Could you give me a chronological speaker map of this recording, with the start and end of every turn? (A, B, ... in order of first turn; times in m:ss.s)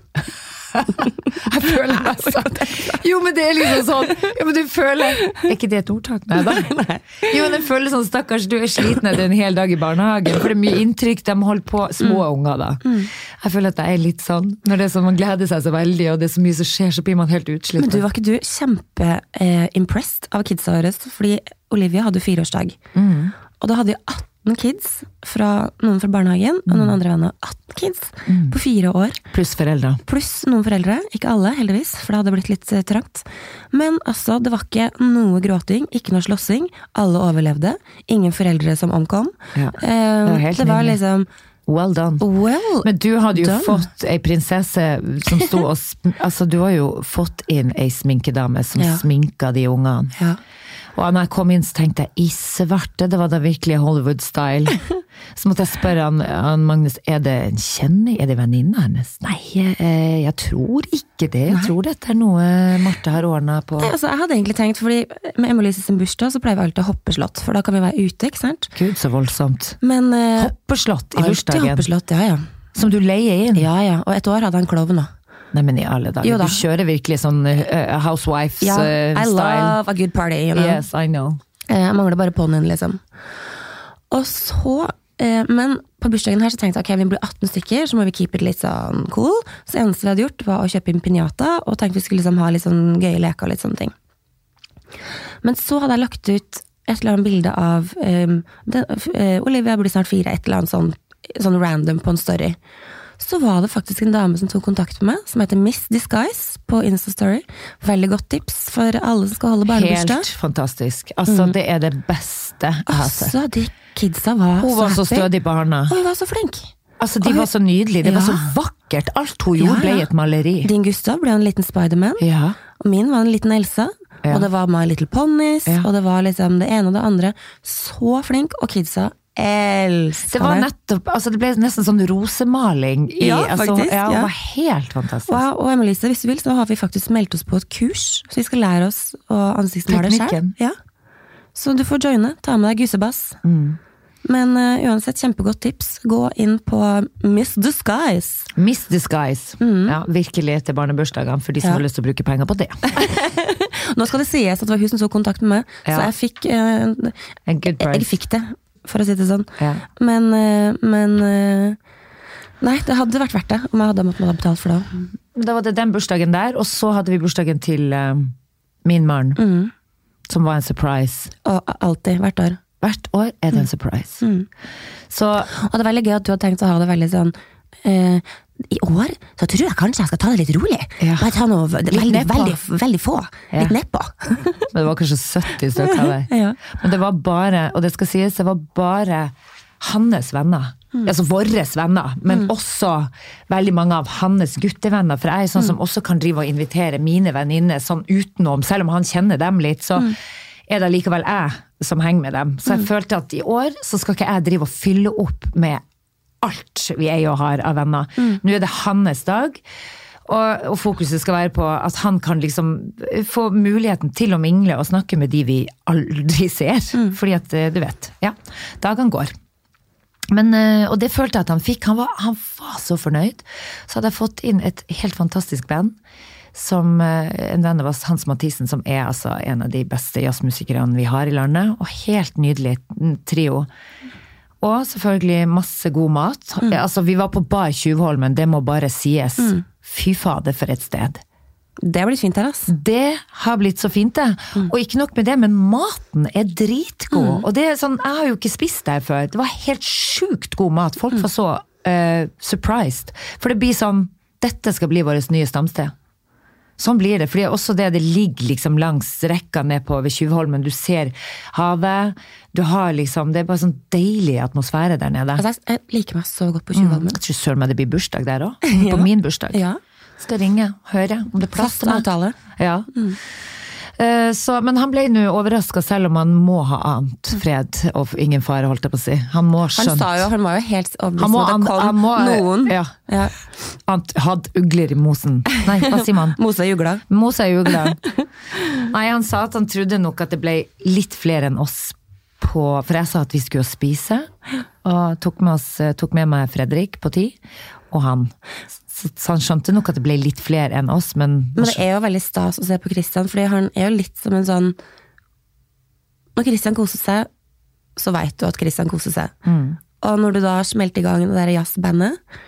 0:00.7-0:18.0 A
0:02.3-0:03.0 B
0:06.6-0:07.2 B
0:12.8-0:13.1 B
0:17.8-0:22.8 B
0:23.0-0:23.4 A
0:23.6-0:29.2 B
0:26.7-0:27.0 A
0:28.3-0:28.6 A
0:29.3-0:30.0 A
0:30.0-0:41.3 B
0:39.6-0:41.0 A
0:41.7-0:42.2 A
0:42.2-0:43.9 B
0:42.8-0:50.1 A
0:45.3-0:45.6 B
0:48.8-0:49.0 B
0:51.0-0:54.8 A
0:55.4-1:03.9 A
1:01.5-1:01.7 B
1:03.8-1:08.7 B
1:08.8-1:09.8 A
1:09.8-1:10.5 B
1:10.4-1:11.9 A
1:11.1-1:12.5 B
1:12.8-1:13.7 A
1:13.6-1:15.1 B
1:15.5-1:19.8 A
1:16.2-1:16.6 B
1:18.6-1:20.8 B
1:20.5-1:21.4 A
1:21.7-1:23.0 B
1:24.1-1:33.9 B
1:35.4-1:42.6 B
1:43.2-1:50.3 B
1:49.7-1:53.4 A
1:51.3-1:51.5 B
1:52.9-1:55.3 B
1:54.6-1:56.0 A
1:55.9-1:57.5 B
1:57.0-2:00.7 A
1:58.0-1:58.5 B
1:59.6-2:00.1 B
2:00.6-2:10.7 B
2:02.2-2:02.6 A
2:10.3-2:15.4 A
2:13.2-2:14.3 B
2:15.3-2:20.8 B
2:19.9-2:20.6 A
2:21.6-2:23.4 B
2:23.4-2:23.8 A
2:24.2-2:28.5 B
2:28.6-2:32.9 A
2:29.6-2:29.9 B
2:32.9-2:37.2 B
2:35.9-2:36.1 A
2:37.5-2:38.1 A
2:37.8-2:41.8 B
2:39.6-2:39.8 A
2:42.6-2:45.1 B
2:45.4-2:48.3 A
2:48.8-2:49.4 A
2:49.4-2:49.7 B
2:50.3-2:51.3 A
2:51.4-2:52.6 B
2:52.8-2:54.2 A
2:54.2-2:54.5 B
2:55.1-2:55.5 A
2:55.5-3:04.7 B
3:01.0-3:01.3 A
3:01.9-3:02.6 A
3:04.7-3:20.2 A
3:05.8-3:06.7 B
3:20.7-3:25.8 A
3:26.4-3:29.6 A
3:30.3-3:39.3 A
3:40.3-3:46.0 A
3:46.5-3:53.7 A
3:54.6-4:01.2 A
3:59.4-3:59.6 B
4:01.8-4:02.7 B
4:02.7-4:15.9 A
4:07.1-4:07.4 B
4:16.8-4:25.4 A
4:25.4-4:27.2 B
4:26.8-4:29.6 A
4:28.6-4:29.8 B
4:30.2-4:32.9 A
4:31.5-4:32.4 B
4:34.0-4:40.3 A
4:39.8-4:43.3 B
4:41.2-4:42.9 A
4:43.9-4:46.4 A
4:45.8-4:47.0 B
4:47.1-4:48.0 A
4:47.7-4:48.2 B
4:48.9-4:54.3 A
4:54.8-4:57.4 A
4:57.9-4:58.3 A
4:58.9-5:01.8 A
5:01.6-5:04.8 B
5:06.4-5:07.3 B
5:08.0-5:09.4 B
5:09.4-5:09.8 A
5:10.0-5:12.2 B